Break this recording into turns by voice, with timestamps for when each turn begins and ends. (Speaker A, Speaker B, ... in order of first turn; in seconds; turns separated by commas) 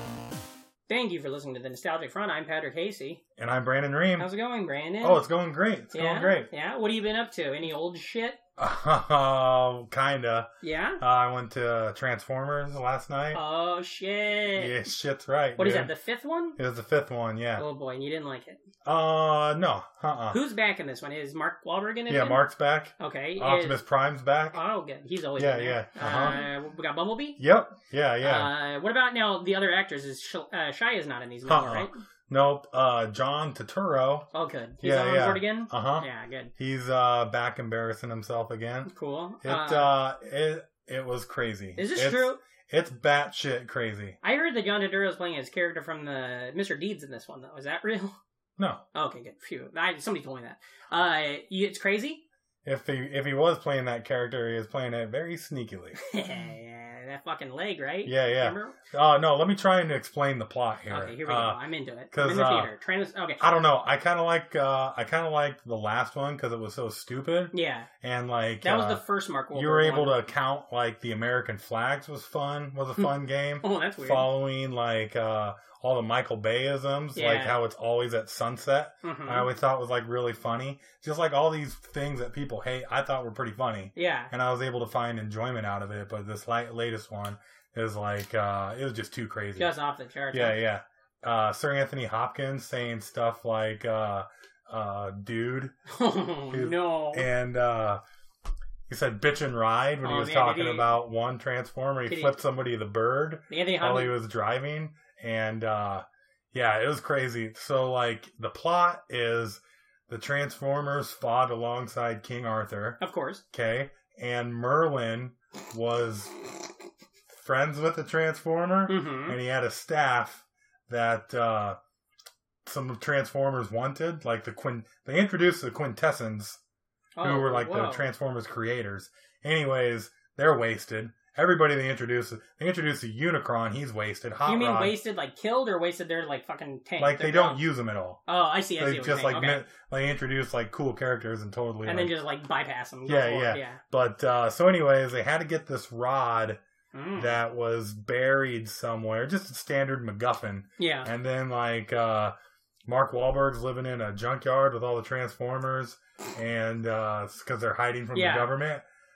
Speaker A: 0.9-3.2, Speaker B: 3.4-4.3, Speaker A: 4.2-5.2, Speaker B: 5.0-6.5, Speaker A: 5.9-8.4, Speaker B: 8.6-13.4, Speaker A: 10.6-11.0, Speaker A: 13.3-14.8, Speaker B: 14.6-15.9, Speaker A: 15.6-16.6, Speaker B: 16.6-17.6, Speaker A: 17.6-18.6, Speaker B: 18.9-20.4, Speaker A: 20.3-22.4, Speaker B: 22.1-24.6, Speaker A: 23.0-23.8, Speaker A: 24.5-27.4, Speaker B: 25.4-26.4, Speaker B: 27.4-28.5, Speaker A: 28.2-32.0, Speaker B: 31.4-34.3, Speaker A: 34.3-36.5, Speaker B: 34.8-38.9, Speaker A: 38.9-39.9, Speaker B: 39.4-44.2, Speaker A: 41.8-42.4, Speaker A: 44.2-48.2, Speaker B: 48.6-48.8, Speaker A: 48.9-52.2, Speaker B: 52.6-56.0, Speaker A: 56.0-58.8, Speaker B: 58.0-61.6, Speaker A: 60.9-63.4, Speaker B: 62.1-62.7, Speaker B: 63.4-89.7, Speaker A: 67.5-67.9, Speaker A: 68.6-70.2, Speaker A: 73.6-74.3, Speaker A: 77.2-77.6, Speaker A: 79.0-79.5, Speaker A: 84.0-84.3, Speaker A: 89.6-90.6, Speaker B: 90.3-95.7, Speaker A: 95.9-97.3, Speaker B: 96.5-98.0, Speaker B: 98.9-113.0, Speaker A: 100.0-101.0, Speaker A: 102.1-102.4, Speaker A: 103.5-104.2, Speaker A: 113.0-113.4, Speaker B: 113.5-116.3, Speaker B: 117.3-121.8, Speaker A: 118.9-119.4, Speaker B: 122.7-126.6, Speaker A: 127.2-128.1, Speaker B: 127.2-135.0, Speaker A: 134.5-137.6, Speaker B: 137.0-138.2, Speaker A: 138.3-139.6, Speaker B: 138.8-142.2, Speaker A: 141.8-143.8, Speaker B: 143.1-146.6, Speaker A: 146.9-147.4, Speaker B: 147.2-152.3, Speaker A: 150.8-151.1, Speaker B: 152.9-158.8, Speaker A: 158.1-158.5